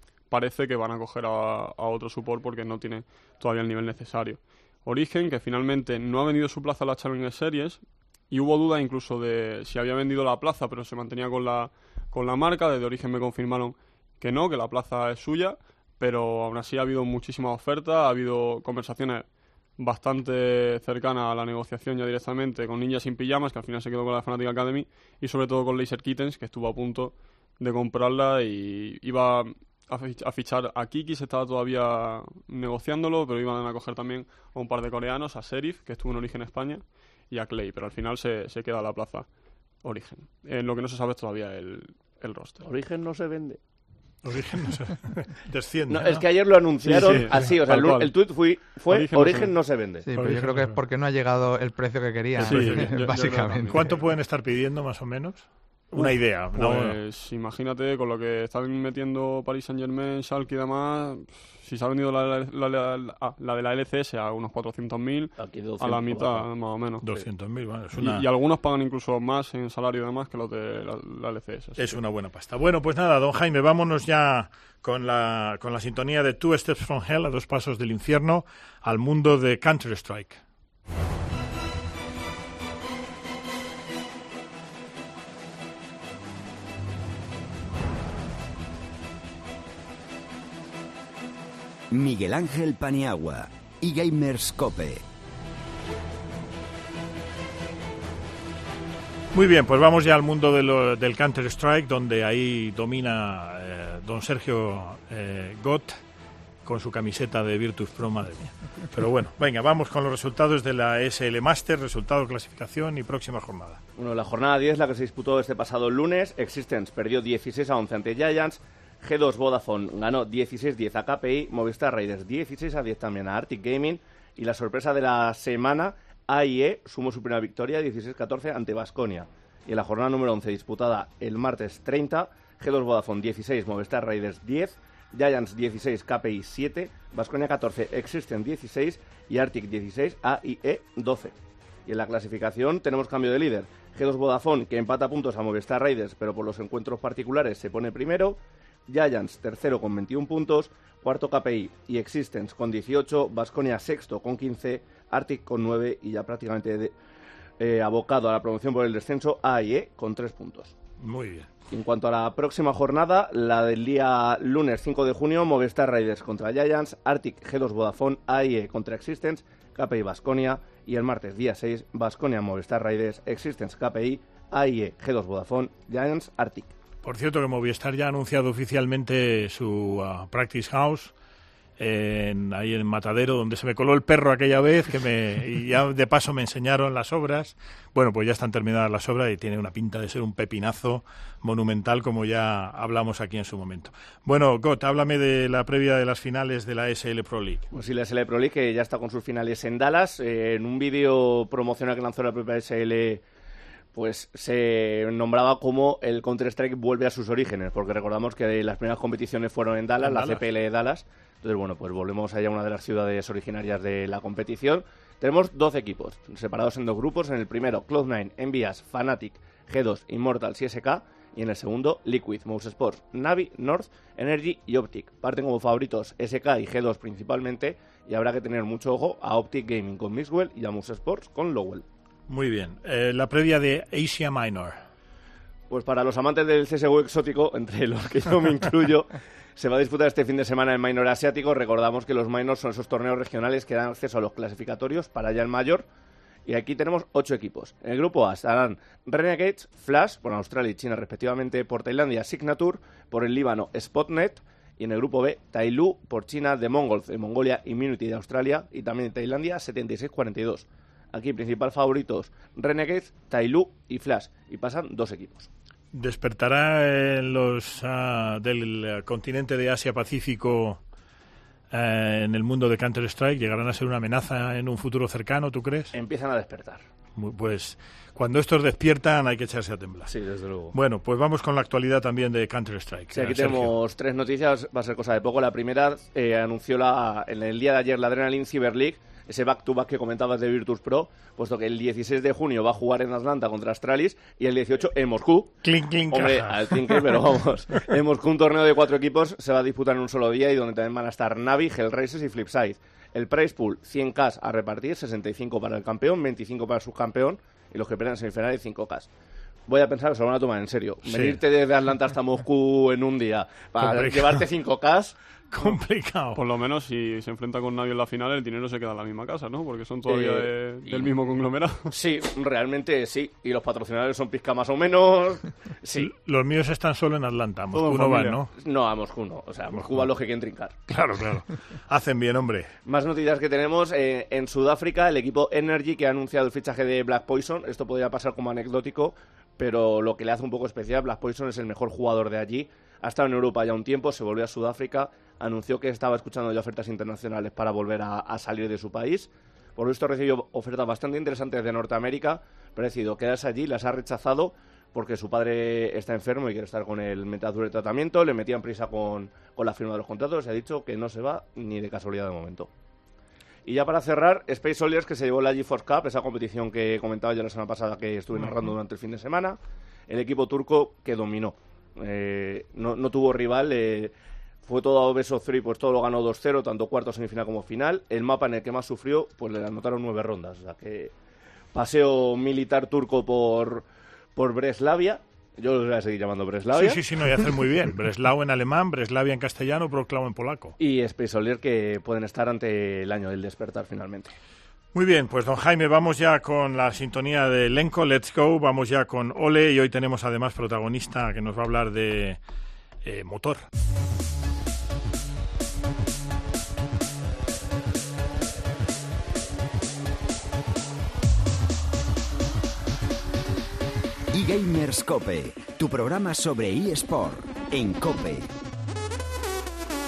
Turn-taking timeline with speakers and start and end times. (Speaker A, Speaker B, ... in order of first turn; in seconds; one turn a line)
Speaker A: 0.3-39.3
Speaker A: 39.8-42.6
Speaker B: 42.6-43.6
Speaker C: 44.2-46.3
Speaker B: 45.9-50.0
Speaker A: 46.8-48.1
Speaker C: 46.9-47.5
Speaker A: 48.8-49.5
Speaker D: 50.0-53.9
Speaker C: 50.1-50.8
Speaker A: 52.4-53.8
Speaker C: 52.4-57.0
Speaker A: 56.0-67.0
Speaker B: 65.4-66.5
Speaker C: 67.0-68.3
Speaker A: 68.0-72.0
Speaker C: 71.8-80.4
Speaker E: 91.9-95.0
Speaker C: 99.3-106.0
Speaker C: 106.6-113.8
Speaker B: 114.0-141.3
Speaker B: 141.8-156.9
Speaker B: 157.6-160.7
Speaker C: 161.0-161.5
Speaker B: 161.7-176.7
Speaker C: 177.0-181.1
Speaker C: 181.8-197.7
Speaker B: 197.7-203.2
Speaker B: 203.9-231.8
Speaker C: 210.0-210.4
Speaker C: 232.3-234.8
Speaker B: 235.7-245.8
Speaker B: 246.4-265.5
Speaker C: 265.9-270.8
Speaker C: 271.7-275.9
Speaker B: 275.9-276.9
Speaker C: 277.1-280.1
Speaker B: 280.1-280.7
Speaker C: 280.7-283.7
Speaker B: 283.1-295.6
Speaker C: 295.6-297.2
Speaker B: 296.1-309.1
Speaker B: 309.7-315.1
Speaker C: 311.0-311.4
Speaker C: 313.8-314.4
Speaker C: 315.5-316.4
Speaker A: 316.4-321.9
Speaker B: 320.1-321.1
Speaker B: 321.9-326.1
Speaker C: 325.9-328.5
Speaker B: 327.7-330.8
Speaker A: 327.9-328.3
Speaker C: 329.7-330.0
Speaker C: 330.9-332.7
Speaker B: 332.8-362.7
Speaker B: 363.6-381.1
Speaker B: 381.7-383.8
Speaker B: 384.4-387.0
Speaker C: 386.7-390.8
Speaker B: 390.8-394.3
Speaker C: 394.9-402.4
Speaker C: 403.0-403.6
Speaker E: 414.3-418.5